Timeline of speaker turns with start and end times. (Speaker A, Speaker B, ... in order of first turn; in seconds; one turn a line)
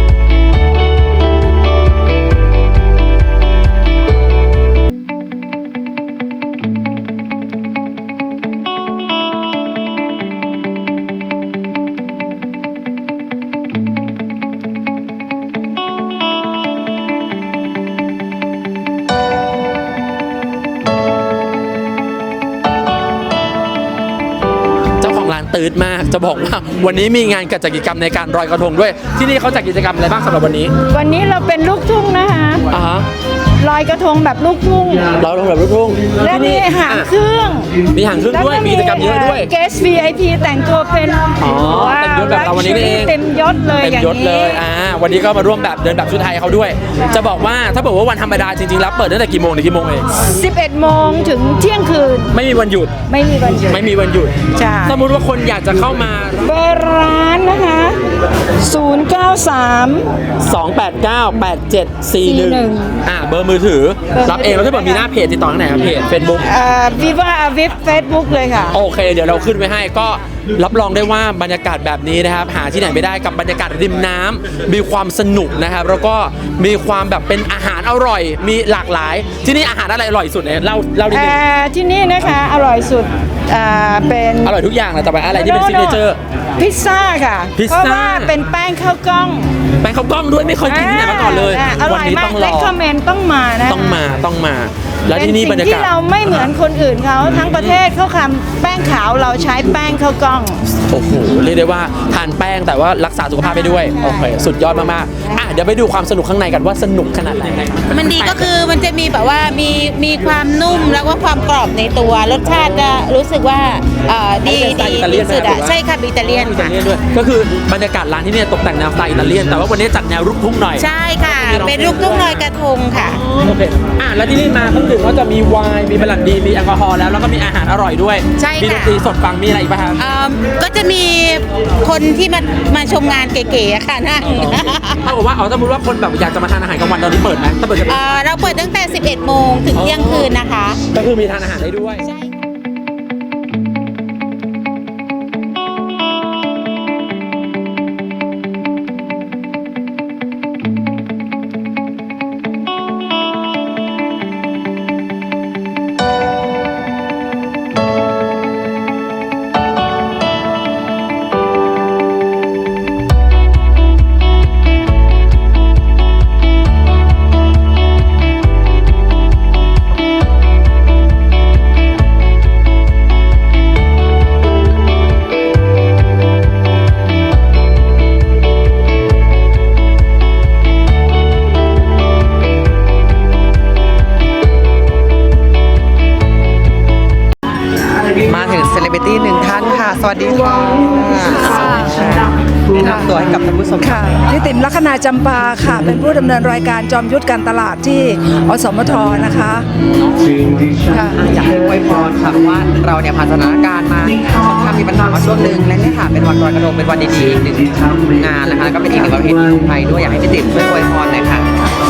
Speaker A: 25.0-30.7
Speaker B: 30.9-32.6
Speaker A: 32.7-33.1
Speaker B: 33.6-35.1
Speaker A: 35.2-37.1
Speaker B: 36.2-37.7
Speaker A: 37.9-39.5
Speaker B: 38.3-44.6
Speaker A: 41.4-43.1
Speaker A: 43.8-50.0
Speaker B: 47.0-47.3
Speaker B: 50.2-52.3
Speaker A: 52.3-52.9
Speaker B: 53.1-53.8
Speaker A: 53.6-56.4
Speaker B: 54.5-55.0
Speaker B: 56.4-58.0
Speaker B: 58.6-60.1
Speaker A: 60.4-66.5
Speaker B: 62.2-63.0
Speaker B: 64.1-65.0
Speaker B: 66.4-68.8
Speaker A: 68.7-81.4
Speaker B: 81.1-84.6
Speaker A: 84.4-86.2
Speaker B: 85.3-86.0
Speaker B: 86.6-89.5
Speaker A: 87.5-88.3
Speaker A: 89.8-92.7
Speaker B: 90.6-94.0
Speaker A: 93.7-95.9
Speaker B: 95.1-100.6
Speaker A: 97.3-97.8
Speaker A: 100.9-108.5
Speaker C: 104.0-104.3
Speaker C: 107.9-116.9
Speaker A: 114.4-115.8
Speaker A: 116.3-122.5
Speaker C: 120.8-123.2
Speaker A: 123.1-130.0
Speaker C: 128.4-129.0
Speaker C: 130.0-135.0
Speaker A: 134.2-138.0
Speaker C: 137.9-140.8
Speaker A: 139.7-140.3
Speaker A: 140.9-142.0
Speaker C: 142.0-142.3
Speaker D: 188.2-194.2
Speaker E: 191.2-192.0
Speaker E: 192.8-193.1
Speaker E: 193.8-199.7
Speaker D: 201.1-211.5